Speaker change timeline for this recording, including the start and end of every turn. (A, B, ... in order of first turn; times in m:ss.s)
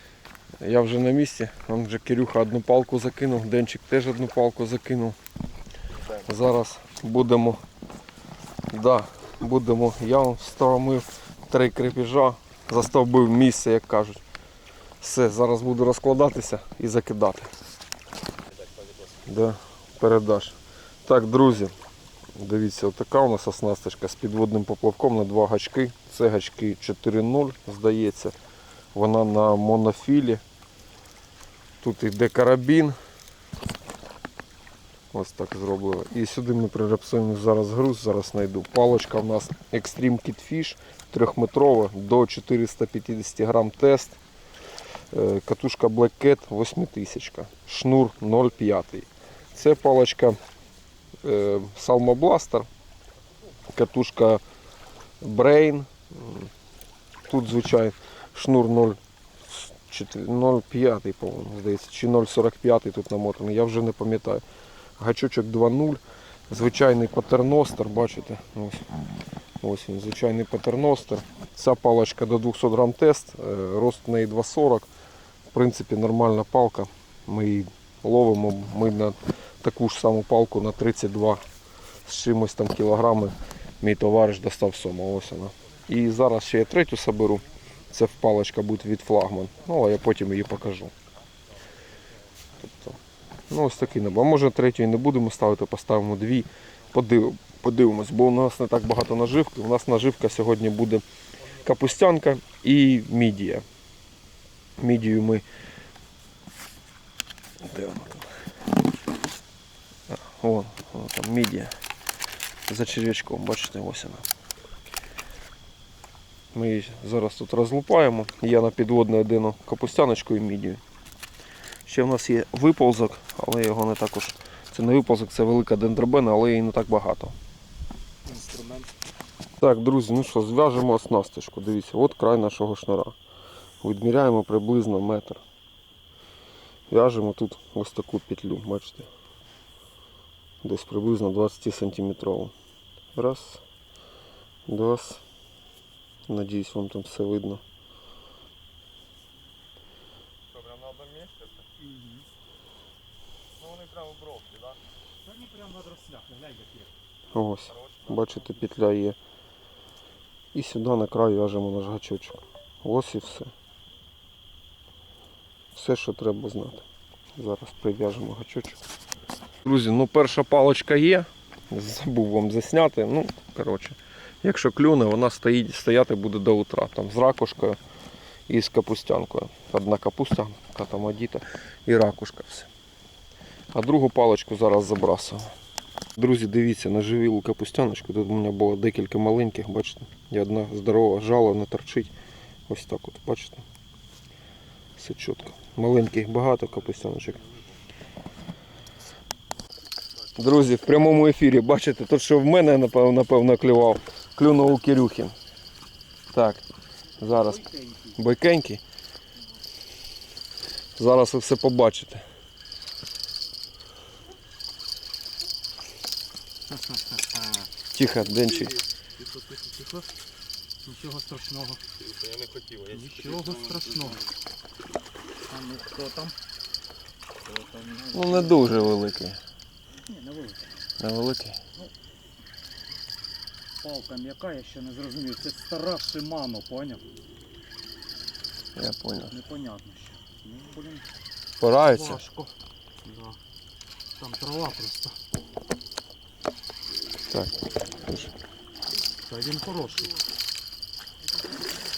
0:00.6-0:05.2 A
0:06.2-0:07.6 A
0:08.7-0:14.2 A
0:15.0-0:17.5 A
0:19.2-0:21.7 A
0:22.4-0:28.3 A
0:28.9-0:30.4 A
0:31.8-0:33.0 A
0:35.1-0:44.2 A
0:45.1-0:50.4 A
0:51.2-0:52.7 A
0:53.7-0:54.4 A
0:55.2-0:56.5 A
0:57.2-1:04.4 A
1:05.0-1:08.9 A
1:09.6-1:14.9 A
1:15.5-1:21.4 A
1:22.0-1:30.9 A
1:32.6-1:33.0 A
1:33.5-1:41.0 A
1:41.5-1:43.6 A
1:44.8-1:45.4 A
1:47.6-1:48.3 A
1:50.1-1:51.7 A
1:52.7-1:54.2 A
1:56.5-2:00.8 A
2:01.8-2:07.3 A
2:08.2-2:08.9 B
2:09.6-2:13.2 A
2:13.8-2:15.4 A
2:16.9-2:19.1 A
2:20.6-2:22.5 A
2:23.1-2:23.6 A
2:24.7-2:25.2 A
2:26.3-2:27.6 A
2:30.5-2:31.7 C
2:33.5-2:34.8 C
2:35.2-2:36.9 B
2:37.3-2:39.2 A
2:37.7-2:38.7 C
2:40.5-2:43.5 A
2:45.7-2:48.8 A
2:49.6-2:57.8 A
2:58.5-3:02.7 A
3:03.7-3:05.5 A
3:06.2-3:12.1 A
3:12.7-3:13.6 A
3:15.0-3:17.4 A
3:16.8-3:17.8 C
3:20.4-3:25.3 A
3:26.3-3:26.6 A
3:27.2-3:27.6 A
3:27.2-3:28.2 B
3:28.1-3:28.8 A
3:31.0-3:32.2 A
3:36.9-3:37.6 B
3:37.9-3:38.7 A
3:38.2-3:40.0 C
3:40.8-3:41.8 B
3:42.0-3:44.3 C
3:42.9-3:44.2 B
3:45.5-3:46.4 B
3:47.5-3:49.0 B
3:48.1-3:49.4 A
3:50.0-3:50.7 B
3:51.0-3:51.6 A
3:53.8-3:57.0 B
3:58.8-3:59.4 A
3:59.3-4:01.1 B
4:01.6-4:02.2 A
4:01.8-4:02.5 B
4:03.0-4:03.4 B
4:04.2-4:05.2 B
4:07.3-4:08.3 A
4:09.2-4:10.2 B